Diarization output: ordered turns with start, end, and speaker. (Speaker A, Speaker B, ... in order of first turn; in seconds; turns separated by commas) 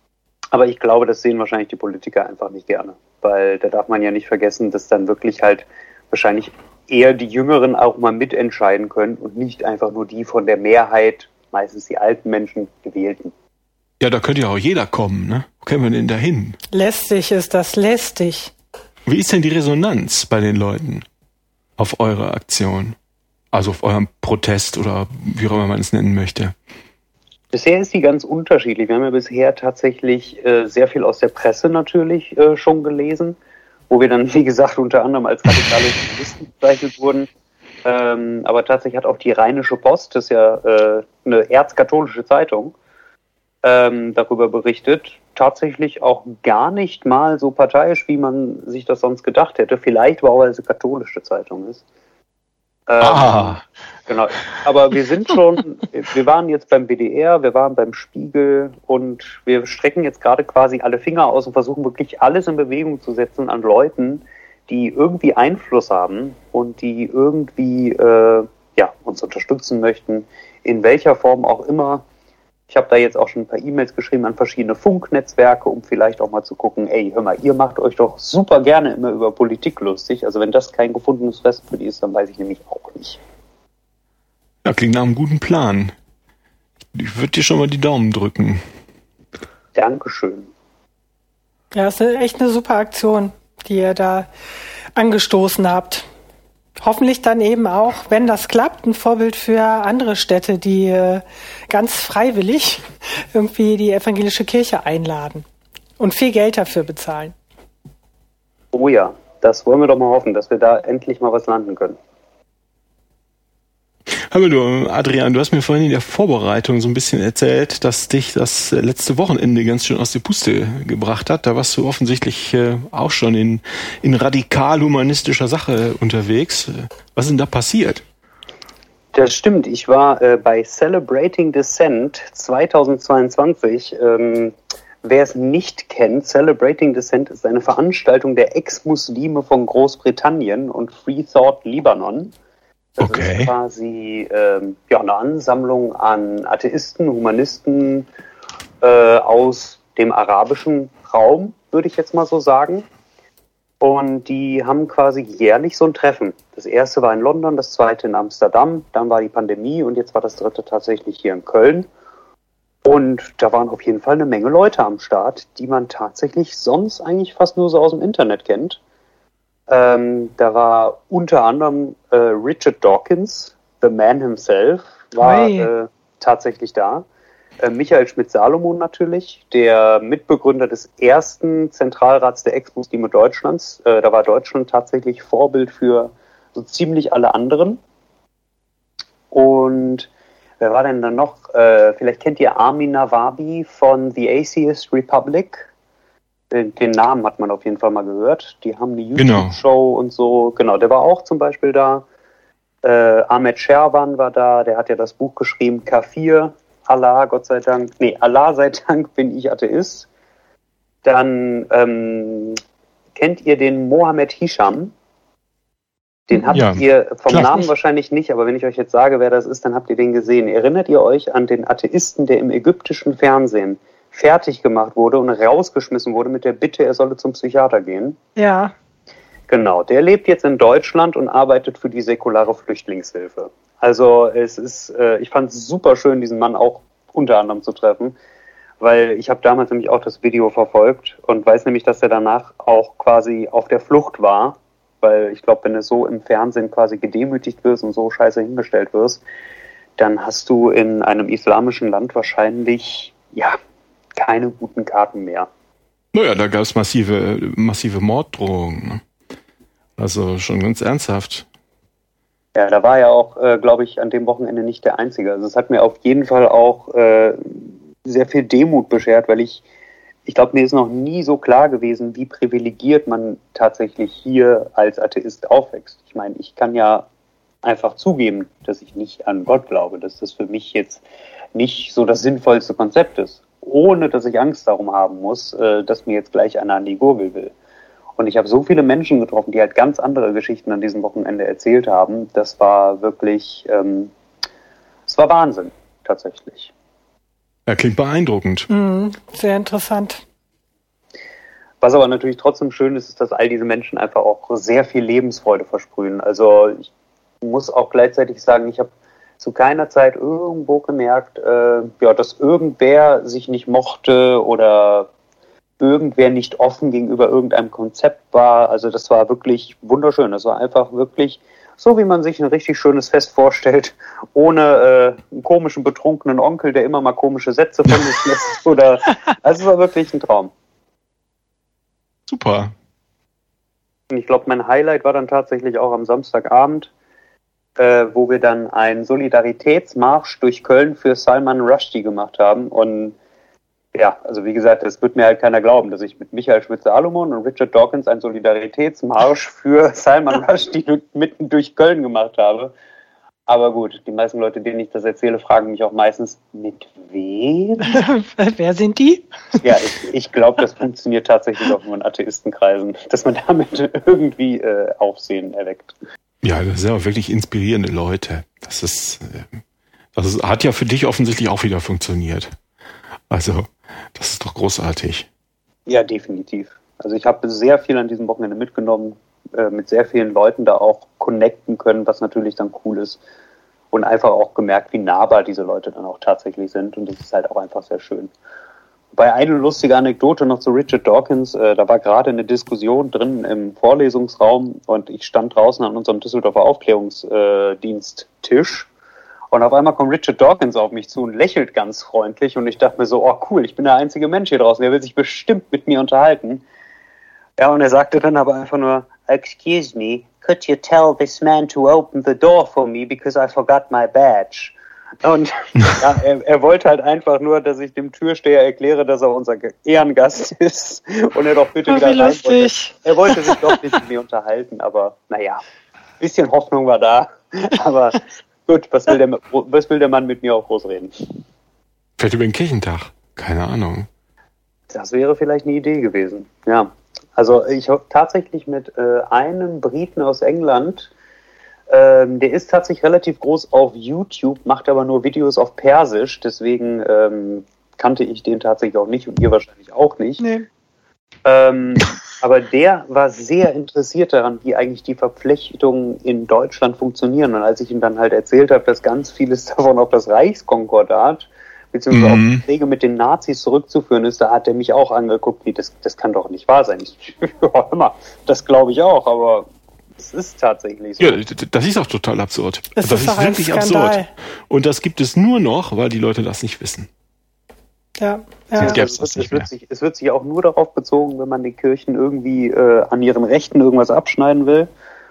Speaker A: 0.5-13.3, Speaker B: 14.0-16.6, Speaker C: 16.7-18.5, Speaker B: 19.1-21.1, Speaker B: 21.8-23.0, Speaker B: 23.5-26.6, Speaker A: 27.5-33.4, Speaker A: 33.9-37.3, Speaker A: 37.9-42.8, Speaker A: 43.6-51.8, Speaker A: 52.9-72.0, Speaker B: 53.0-53.6, Speaker A: 72.7-83.2, Speaker B: 84.7-85.9, Speaker B: 86.9-88.6, Speaker A: 89.8-90.5, Speaker C: 91.7-94.3, Speaker C: 95.0-96.0, Speaker C: 96.8-105.5, Speaker C: 106.0-107.3, Speaker A: 108.7-112.0, Speaker B: 114.1-128.0, Speaker A: 129.1-142.3, Speaker B: 143.0-143.5, Speaker A: 143.0-148.1, Speaker A: 148.8-152.9, Speaker A: 153.8-161.9, Speaker A: 162.8-168.8, Speaker A: 169.7-177.1, Speaker C: 175.2-175.7, Speaker A: 177.6-187.8, Speaker A: 189.3-195.7, Speaker A: 196.5-202.0, Speaker B: 199.2-199.6, Speaker A: 202.8-210.1, Speaker A: 211.0-212.6, Speaker A: 213.2-214.9, Speaker A: 216.3-228.2, Speaker B: 216.5-217.6, Speaker C: 228.4-228.7, Speaker A: 229.5-238.2, Speaker A: 238.8-249.2, Speaker A: 250.0-253.6, Speaker A: 254.2-255.5, Speaker B: 256.1-259.0, Speaker B: 260.0-261.5, Speaker A: 262.6-269.6, Speaker A: 270.3-277.1, Speaker A: 277.6-281.0, Speaker A: 281.6-287.5, Speaker A: 288.2-294.1, Speaker A: 295.1-296.7, Speaker B: 297.7-298.7, Speaker C: 298.7-300.2, Speaker A: 301.8-306.9, Speaker A: 307.4-315.1, Speaker A: 315.8-330.5, Speaker B: 332.3-332.7, Speaker A: 334.1-336.9, Speaker A: 337.8-343.2, Speaker A: 343.9-352.7, Speaker A: 353.5-358.0, Speaker C: 357.8-359.6, Speaker A: 359.6-365.9, Speaker B: 366.4-369.6, Speaker B: 370.1-372.6, Speaker B: 373.3-375.3, Speaker A: 375.9-383.2, Speaker A: 383.9-388.3, Speaker A: 389.1-398.9, Speaker A: 399.5-406.6, Speaker A: 407.6-425.6, Speaker C: 421.9-423.8, Speaker A: 426.2-431.1, Speaker B: 432.2-434.1, Speaker A: 434.9-441.1, Speaker A: 441.9-450.4, Speaker C: 450.4-450.7, Speaker A: 451.4-469.7, Speaker B: 462.1-462.6, Speaker A: 470.2-471.4, Speaker B: 471.2-477.1, Speaker C: 473.0-474.3, Speaker C: 478.2-479.0, Speaker A: 478.8-484.9, Speaker B: 478.8-479.7